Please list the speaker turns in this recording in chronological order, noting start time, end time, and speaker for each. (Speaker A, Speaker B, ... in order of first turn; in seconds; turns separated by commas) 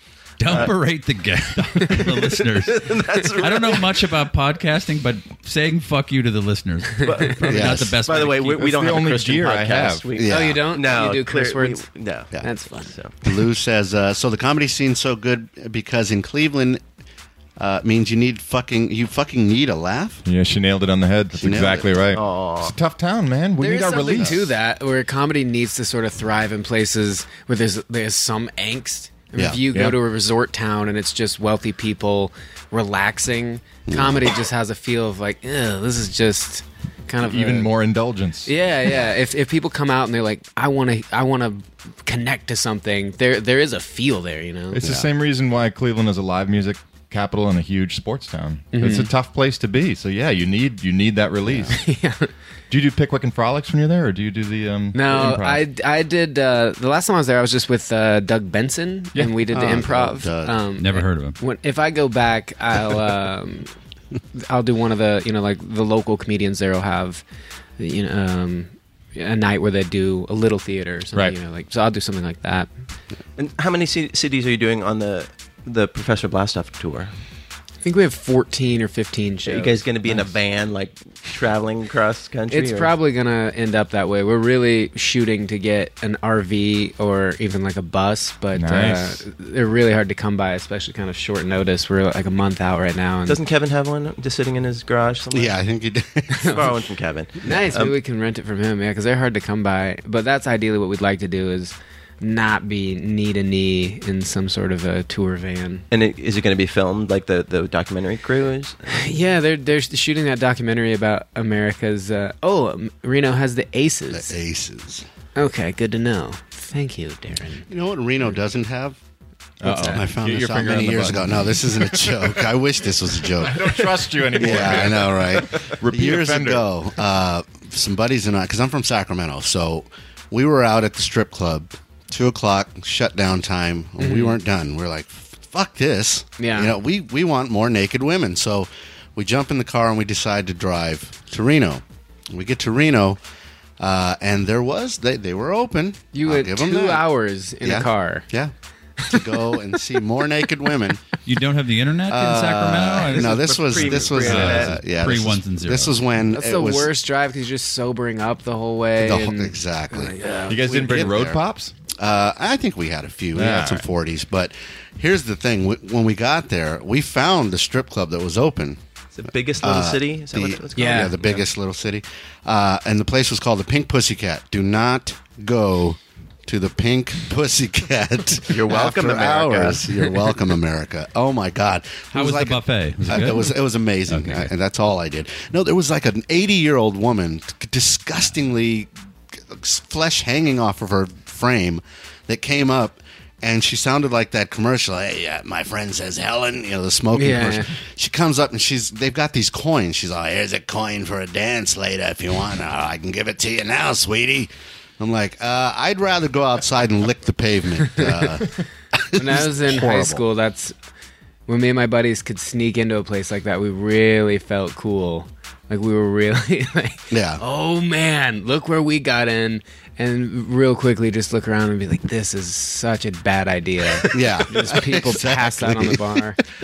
Speaker A: 0.4-8.9, Speaker B: 0.5-0.7, Speaker B: 2.0-4.0, Speaker B: 7.0-12.3, Speaker C: 7.5-8.0, Speaker D: 8.6-10.0, Speaker C: 10.2-10.6, Speaker E: 10.3-11.9, Speaker E: 12.4-12.9, Speaker B: 12.9-13.2, Speaker C: 13.2-16.8, Speaker C: 17.6-20.2, Speaker D: 20.2-24.5, Speaker C: 21.4-21.9, Speaker B: 22.1-22.8, Speaker E: 23.6-37.7, Speaker C: 29.4-29.6, Speaker D: 29.7-30.0, Speaker C: 33.9-34.3, Speaker D: 37.2-38.5, Speaker E: 38.5-45.0, Speaker D: 44.8-51.8, Speaker C: 44.8-45.1, Speaker E: 48.7-49.1, Speaker C: 51.5-51.8, Speaker E: 51.7-52.3, Speaker D: 52.7-55.7, Speaker E: 54.9-63.7, Speaker C: 59.5-60.6, Speaker A: 60.8-61.4, Speaker E: 64.3-67.2, Speaker E: 67.8-72.7, Speaker B: 73.4-77.1, Speaker E: 77.8-80.3, Speaker B: 79.4-82.9, Speaker E: 82.5-93.4, Speaker D: 88.5-89.2, Speaker B: 93.3-95.6, Speaker C: 95.3-96.7, Speaker B: 96.4-98.0, Speaker E: 97.4-105.8, Speaker B: 105.9-109.0, Speaker E: 108.9-114.3, Speaker C: 114.1-115.1, Speaker E: 115.4-117.7, Speaker C: 117.7-119.0, Speaker D: 119.6-122.5, Speaker C: 119.6-143.2, Speaker E: 119.7-120.0, Speaker D: 123.2-126.7, Speaker E: 134.0-134.4, Speaker E: 136.4-136.7, Speaker C: 143.8-147.1, Speaker E: 146.1-148.3, Speaker C: 147.6-148.5, Speaker E: 149.0-149.5, Speaker C: 149.1-151.0, Speaker A: 151.2-156.0, Speaker C: 152.1-156.9, Speaker B: 153.2-154.8, Speaker D: 154.2-154.7, Speaker E: 156.3-160.6, Speaker C: 159.0-161.4, Speaker D: 160.5-161.7, Speaker C: 161.9-168.8, Speaker D: 163.3-163.9, Speaker B: 169.1-171.4, Speaker C: 169.6-188.9, Speaker E: 170.8-171.2, Speaker B: 178.5-180.4, Speaker A: 182.1-184.5, Speaker C: 189.5-210.2, Speaker E: 197.1-197.7, Speaker E: 207.9-208.3, Speaker E: 209.1-210.8, Speaker E: 211.5-226.4, Speaker C: 217.1-217.4, Speaker C: 224.1-226.2